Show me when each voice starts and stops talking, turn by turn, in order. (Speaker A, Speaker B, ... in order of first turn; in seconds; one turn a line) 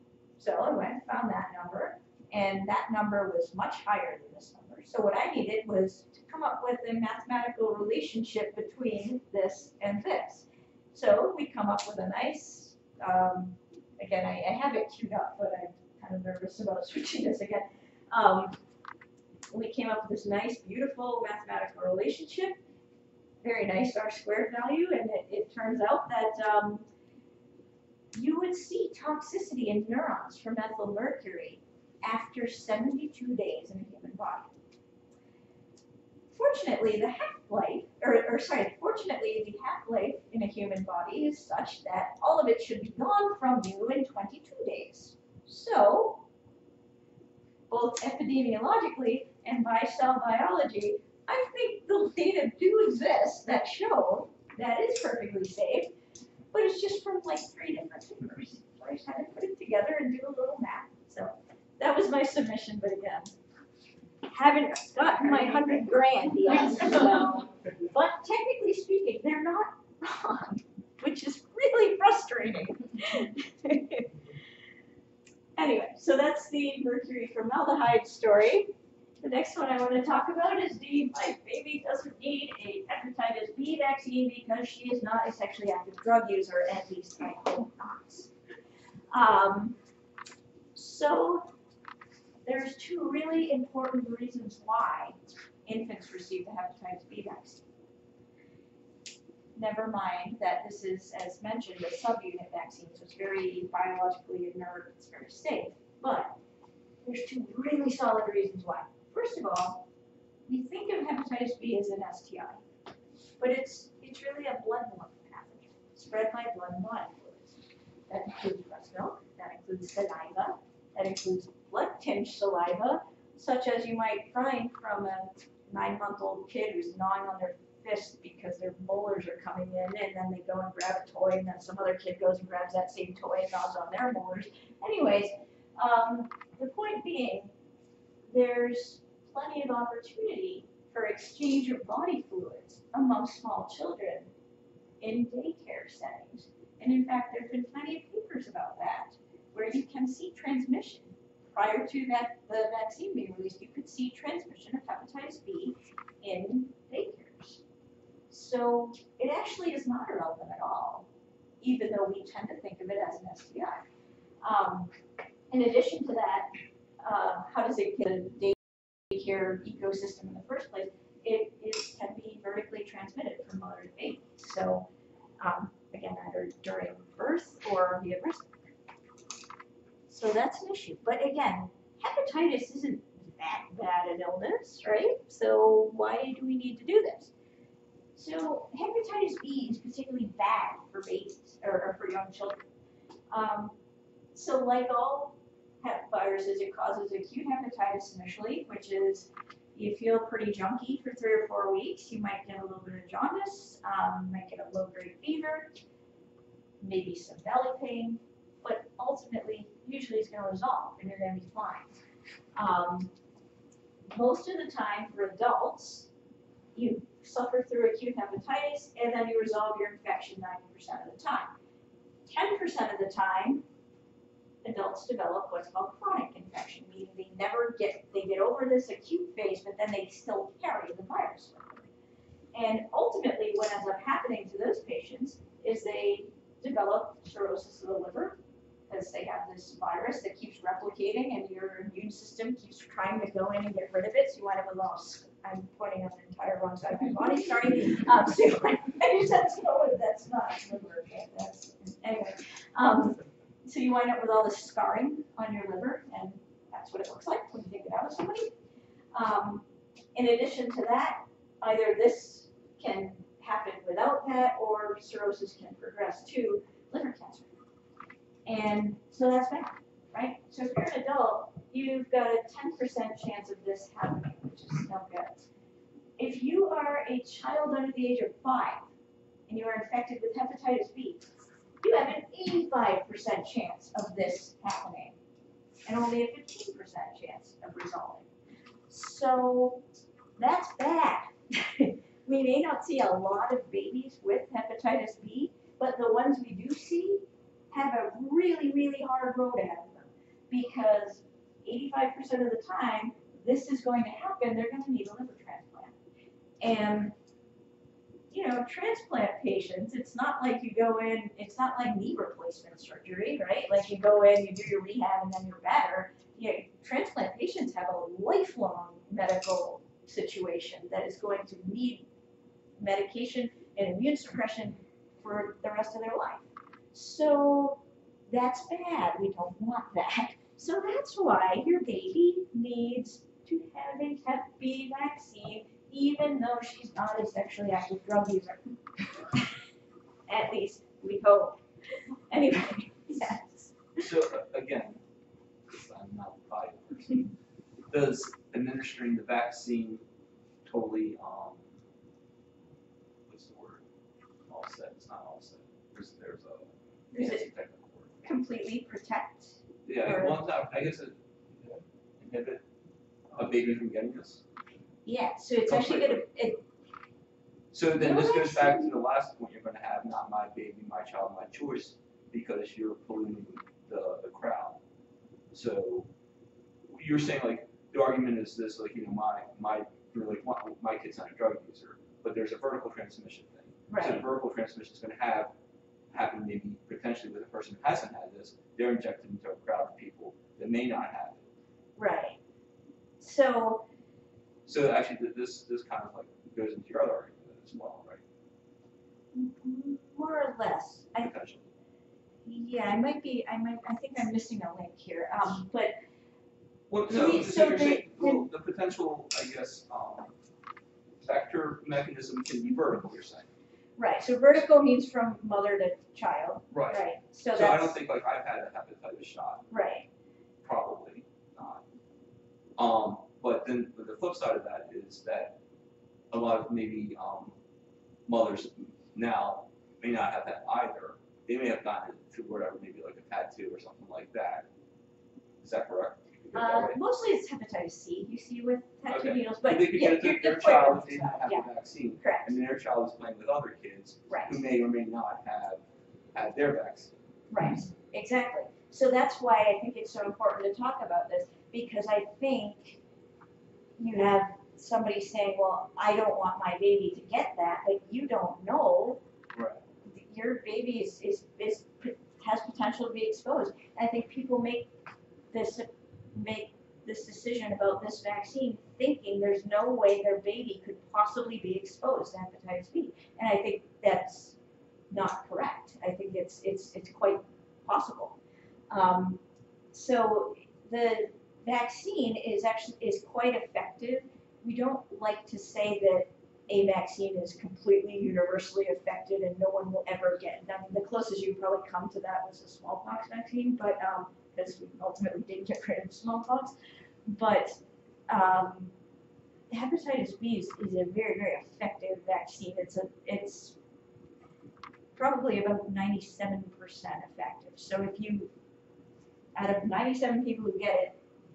Speaker A: 0.4-18.6
Speaker A: 19.5-22.6
Speaker A: 23.4-26.9
Speaker A: 28.1-34.5
Speaker A: 36.3-46.2
Speaker A: 47.7-55.9
Speaker A: 56.5-63.3
Speaker A: 64.3-74.1
Speaker A: 75.5-88.3
Speaker A: 89.1-89.8
Speaker A: 90.7-91.5
Speaker A: 92.5-97.6
Speaker A: 99.5-106.4
Speaker A: 107.0-109.8
Speaker A: 110.5-112.6
Speaker A: 113.4-137.5
Speaker A: 138.3-144.3
Speaker A: 145.0-157.6
Speaker A: 158.3-161.1
Speaker A: 161.6-163.9
Speaker A: 164.4-164.9
Speaker A: 165.5-168.6
Speaker A: 169.1-174.9
Speaker A: 175.4-178.6
Speaker A: 180.1-187.3
Speaker A: 188.1-192.6
Speaker A: 193.3-193.7
Speaker A: 194.3-205.7
Speaker A: 206.8-211.9
Speaker A: 212.6-213.1
Speaker A: 214.1-216.1
Speaker A: 216.7-221.6
Speaker A: 222.3-223.6
Speaker A: 224.6-231.9
Speaker A: 232.5-238.4
Speaker A: 238.9-258.5
Speaker A: 259.1-259.6
Speaker A: 260.1-267.5
Speaker A: 268.4-275.4
Speaker A: 276.2-278.9
Speaker A: 279.5-281.2
Speaker A: 281.8-285.1
Speaker A: 285.9-288.3
Speaker A: 288.9-289.8
Speaker A: 290.4-305.9
Speaker A: 306.6-307.1
Speaker A: 308.3-322.1
Speaker A: 322.8-339.5
Speaker A: 340.3-341.6
Speaker A: 342.3-344.0
Speaker B: 344.0-345.0
Speaker B: 345.7-347.3
Speaker B: 347.9-350.0
Speaker B: 350.6-351.6
Speaker B: 353.3-353.8
Speaker B: 354.5-358.4
Speaker A: 357.1-357.4
Speaker A: 358.2-360.4
Speaker B: 359.9-362.6
Speaker B: 363.3-364.4
Speaker A: 365.1-366.6
Speaker B: 365.7-366.2
Speaker B: 367.7-374.8
Speaker A: 367.9-368.9
Speaker B: 375.5-376.1
Speaker B: 376.9-385.5
Speaker A: 383.9-384.3
Speaker B: 386.1-391.4
Speaker A: 392.0-392.4
Speaker A: 393.2-393.9
Speaker B: 394.6-398.2
Speaker A: 399.3-401.3
Speaker B: 401.2-401.7
Speaker A: 402.4-405.9
Speaker B: 406.9-410.3
Speaker A: 407.1-408.4
Speaker B: 411.2-413.5
Speaker A: 414.0-418.0
Speaker B: 416.7-419.7
Speaker A: 419.7-420.1
Speaker B: 420.6-421.8
Speaker B: 422.8-425.6
Speaker B: 426.3-427.6
Speaker B: 428.3-434.7
Speaker B: 435.6-437.0
Speaker A: 436.5-441.7
Speaker B: 439.1-445.8
Speaker A: 442.2-442.5
Speaker A: 444.3-444.6
Speaker B: 446.3-447.1
Speaker A: 447.5-453.0
Speaker A: 454.0-459.2
Speaker B: 459.5-459.8
Speaker A: 460.1-464.9
Speaker A: 465.5-474.6
Speaker A: 475.1-478.4
Speaker A: 478.9-479.4
Speaker A: 479.9-496.7
Speaker A: 497.3-498.9
Speaker A: 499.7-503.8
Speaker A: 505.1-508.5
Speaker A: 509.6-511.2